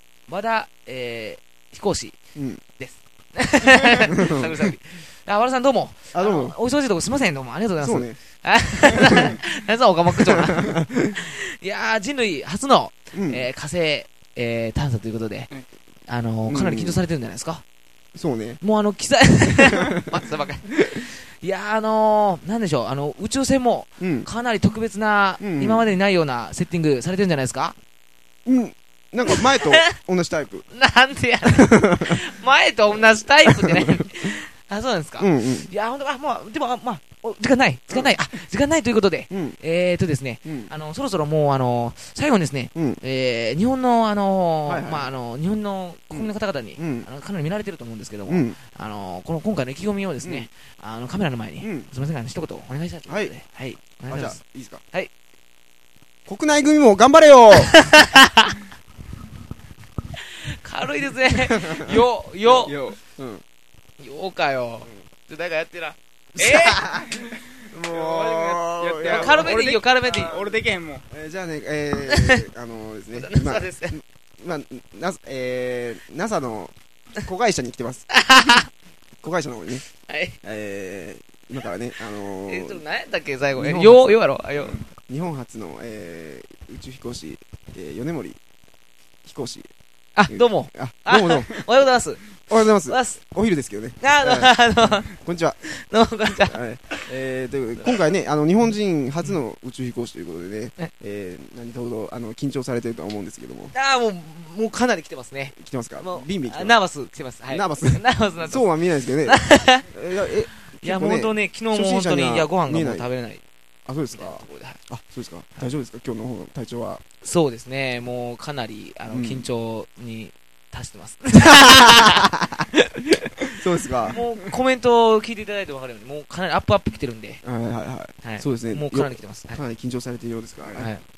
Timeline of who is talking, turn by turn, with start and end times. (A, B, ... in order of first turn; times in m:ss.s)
0:00.3-0:02.2 A
0:02.3-0:02.6 B
0:02.8-0:15.5 A
0:04.1-0:04.7 B
0:06.1-0:06.6 B
0:07.8-0:08.2 B
0:09.0-0:09.4 B
0:10.2-0:11.2 B
0:13.1-0:13.5 B
0:16.0-0:17.6 A
0:16.4-0:17.0 B
0:18.1-0:18.6 B
0:18.6-0:27.8 A
0:19.6-0:20.1 B
0:24.0-0:24.3 B
0:25.4-0:25.9 B
0:28.4-0:30.6 B
0:29.3-0:29.6 A
0:30.7-0:54.4 A
0:31.4-0:32.2 B
0:32.9-0:34.2 B
0:35.2-0:35.7 B
0:37.9-0:38.2 B
0:39.3-0:39.6 B
0:40.4-0:40.7 B
0:42.7-0:43.0 B
0:44.6-0:45.1 B
0:46.1-0:47.1 B
0:48.3-0:48.6 B
0:50.2-0:50.5 B
0:51.6-0:51.9 B
0:53.0-0:53.3 B
0:54.1-0:54.8 B
0:56.2-0:57.9 B
0:57.6-0:58.5 A
1:00.5-1:02.8 A
1:01.3-1:03.4 B
1:02.6-1:03.0 C
1:04.0-1:06.8 A
1:06.4-1:10.6 B
1:07.8-1:11.0 C
1:09.0-1:10.3 A
1:11.1-1:18.1 B
1:12.1-1:12.4 A
1:13.1-1:14.0 A
1:18.1-1:18.7 A
1:19.2-1:19.8 B
1:20.0-1:20.4 A
1:20.4-1:22.8 B
1:22.4-1:24.8 A
1:23.5-1:24.1 B
1:24.7-1:28.4 B
1:29.2-1:29.7 B
1:30.2-1:32.2 A
1:30.3-1:31.6 B
1:32.5-1:35.6 B
1:32.8-1:33.2 A
1:34.0-1:35.1 A
1:35.6-1:37.0 A
1:36.3-1:43.7 B
1:43.7-1:48.6 A
1:45.5-1:46.8 B
1:47.5-1:53.1 B
1:49.2-1:49.8 A
1:50.8-1:53.4 A
1:53.8-1:57.0 B
1:54.1-1:54.8 A
1:57.2-2:03.0 A
1:59.1-1:59.5 B
2:01.3-2:02.6 B
2:03.5-2:04.2 B
2:04.1-2:07.4 A
2:07.4-2:10.9 B
2:08.2-2:09.6 A
2:10.7-2:11.0 A